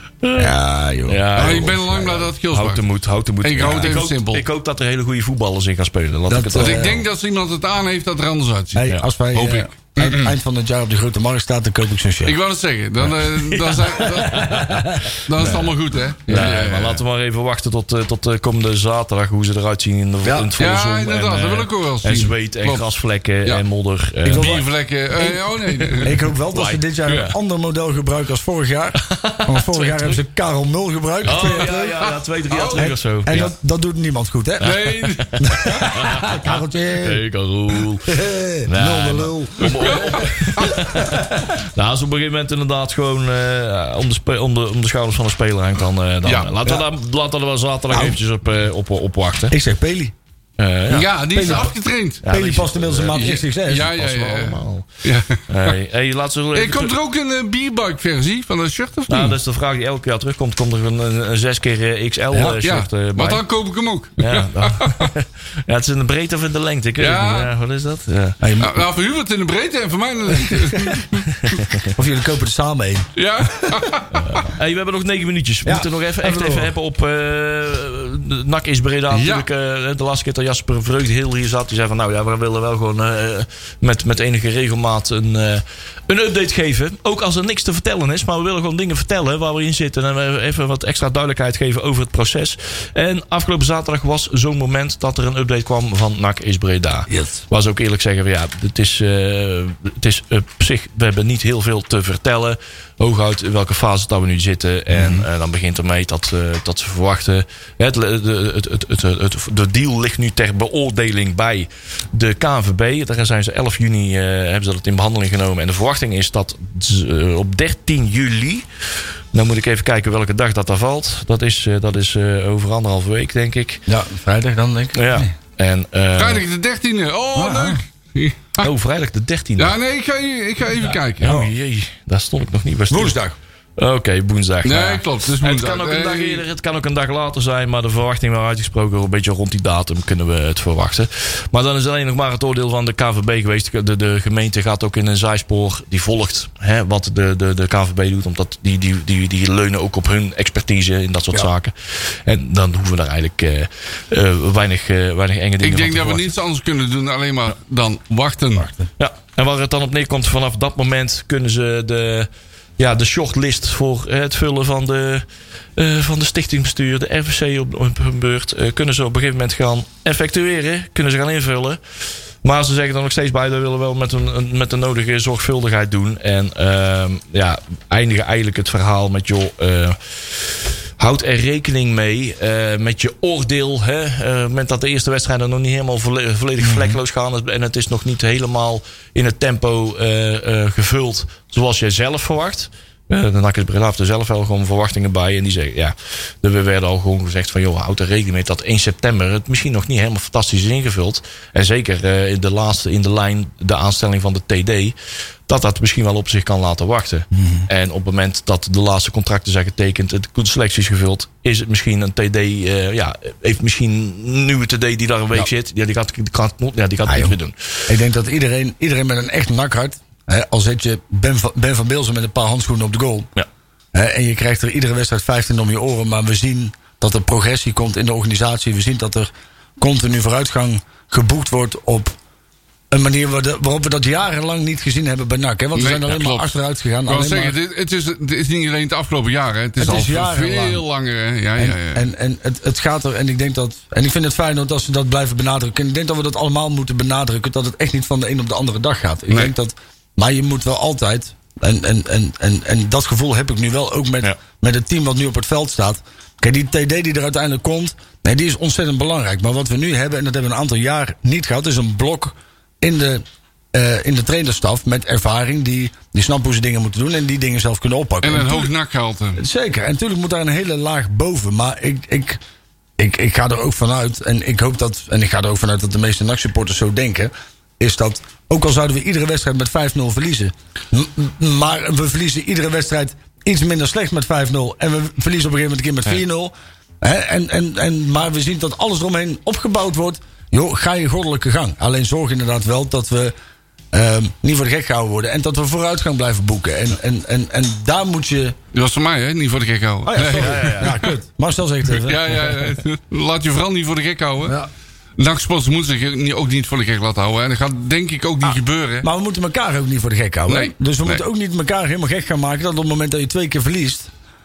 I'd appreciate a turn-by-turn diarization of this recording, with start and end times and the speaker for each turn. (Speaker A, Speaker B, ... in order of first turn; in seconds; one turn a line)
Speaker A: 0.2-0.5
Speaker B: 0.3-1.8
Speaker A: 1.1-7.0
Speaker C: 1.4-2.8
Speaker C: 3.4-4.5
Speaker B: 3.6-3.9
Speaker B: 6.3-7.0
Speaker C: 6.6-10.3
Speaker B: 8.7-12.3
Speaker C: 12.2-14.7
Speaker A: 13.1-24.6
Speaker B: 14.2-15.1
Speaker C: 15.2-17.0
Speaker B: 20.2-20.5
Speaker C: 20.6-22.9
Speaker B: 24.2-32.0
Speaker C: 24.3-26.2
Speaker A: 26.5-27.3
Speaker A: 29.0-30.1
Speaker A: 31.2-33.5
Speaker C: 31.3-32.9
Speaker B: 32.8-34.7
Speaker C: 34.6-35.8
Speaker A: 34.6-38.1
Speaker B: 35.4-37.2
Speaker B: 38.1-41.5
Speaker A: 38.6-49.5
Speaker C: 39.8-40.8
Speaker C: 46.2-46.5
Speaker B: 47.9-48.2
Speaker B: 49.5-50.1
Speaker A: 50.6-51.6
Speaker C: 50.9-52.2
Speaker B: 51.3-53.9
Speaker A: 52.2-54.9
Speaker C: 53.1-55.8
Speaker A: 55.5-56.9
Speaker C: 56.5-59.4
Speaker A: 59.1-63.4
Speaker B: 62.3-62.6
Speaker C: 62.6-65.1
Speaker A: 64.2-68.4
Speaker C: 67.0-67.5
Speaker B: 68.4-68.9
Speaker C: 68.6-71.6
Speaker B: 70.3-71.0
Speaker A: 71.4-71.9
Speaker B: 71.9-73.9
Speaker C: 73.2-74.5
Speaker A: 74.1-118.7
Speaker B: 75.6-76.7
Speaker C: 79.1-79.5
Speaker B: 97.1-97.4
Speaker B: 104.9-105.2
Speaker A: 119.3-123.8
Speaker B: 123.9-125.3
Speaker A: 124.9-126.4
Speaker C: 126.2-128.7
Speaker B: 127.3-127.8
Speaker A: 128.6-129.8
Speaker C: 129.6-131.4
Speaker A: 130.8-133.2
Speaker B: 132.9-133.3
Speaker A: 133.8-156.3
Speaker C: 134.6-136.4
Speaker C: 155.6-158.7
Speaker B: 158.6-158.9
Speaker A: 159.0-165.2
Speaker A: 165.8-171.8
Speaker A: 172.4-204.9
Speaker B: 186.6-187.0
Speaker A: 205.5-217.9
Speaker B: 207.3-207.7
Speaker B: 217.1-217.3
Speaker B: 217.9-223.3
Speaker B: 223.9-232.2
Speaker B: 232.9-237.6
Speaker C: 235.7-242.1
Speaker B: 239.8-240.8
Speaker B: 241.6-268.7
Speaker C: 268.2-269.4
Speaker B: 269.4-272.4
Speaker B: 273.0-293.3
Speaker B: 293.9-298.6
Speaker C: 298.7-301.1
Speaker B: 300.1-302.6
Speaker A: 300.4-301.0
Speaker C: 301.9-304.6
Speaker B: 304.4-304.7
Speaker C: 305.2-309.1
Speaker B: 308.4-314.1
Speaker C: 310.5-311.2